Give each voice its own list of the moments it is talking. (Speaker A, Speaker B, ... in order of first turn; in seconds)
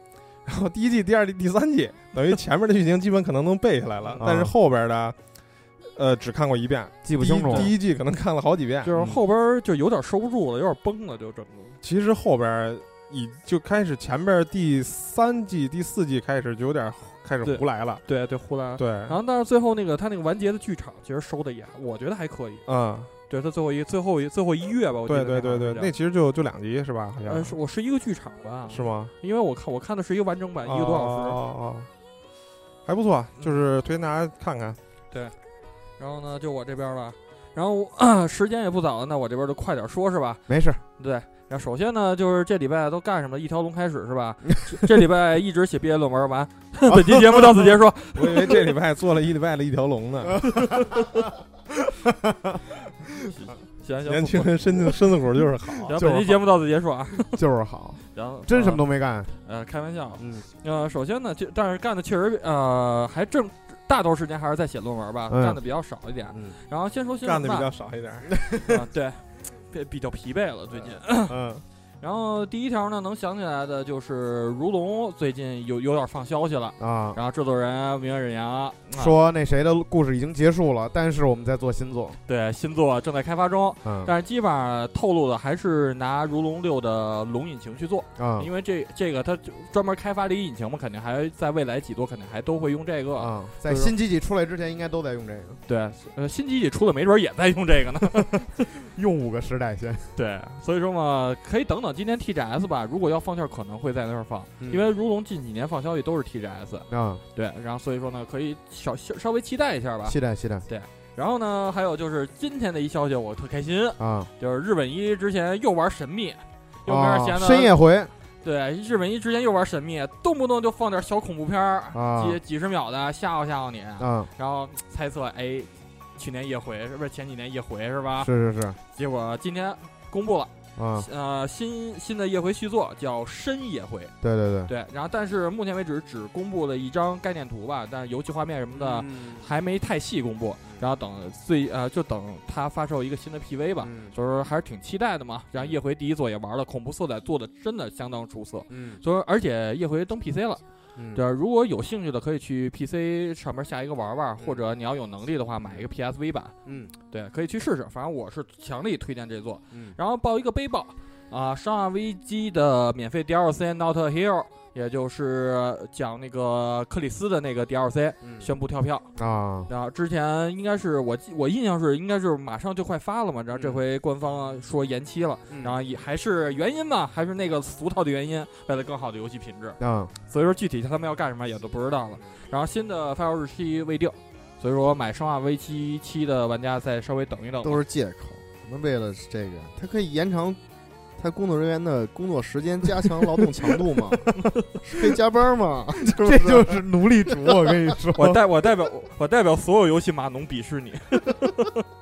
Speaker A: 0.5-5.2, 5.9-9.2, 11.8-18.0, 18.8-19.2, 22.7-23.1, 25.1-27.6, 28.7-29.1, 30.6-31.9, 32.9-34.8, 48.1-50.5, 54.1-56.0, 67.2-68.3
Speaker B: 4.2-4.5, 7.0-7.7, 40.5-40.8, 52.3-52.6, 55.9-56.4, 57.2-59.3, 60.2-60.5, 65.3-65.6, 71.3-71.6, 76.8-77.2, 79.0-82.2, 83.8-84.1, 88.2-88.5, 93.2-95.6, 98.8-100.1, 104.6-104.9, 106.9-107.2, 110.0-110.6, 114.0-114.3, 116.9-118.1, 121.9-122.4, 124.0-124.3, 128.2-128.8, 130.8-131.1, 134.2-134.7, 169.2-169.7, 179.8-180.1, 196.2-198.4
Speaker C: 8.8-11.8, 17.4-22.6, 23.3-25.9, 27.3-31.4, 36.0-48.7, 50.6-51.1, 53.2-54.9, 55.8-57.4, 58.1-58.8, 59.4-67.7, 68.4-71.4, 72.0-79.2, 82.3-93.9, 95.7-98.5, 100.2-117.7, 118.4-128.3, 128.9-134.1, 134.7-150.6, 151.1-156.5, 157.1-169.1, 169.7-179.8, 180.3-187.8, 198.2-201.7
Speaker D: 187.6-190.6, 191.2-196.8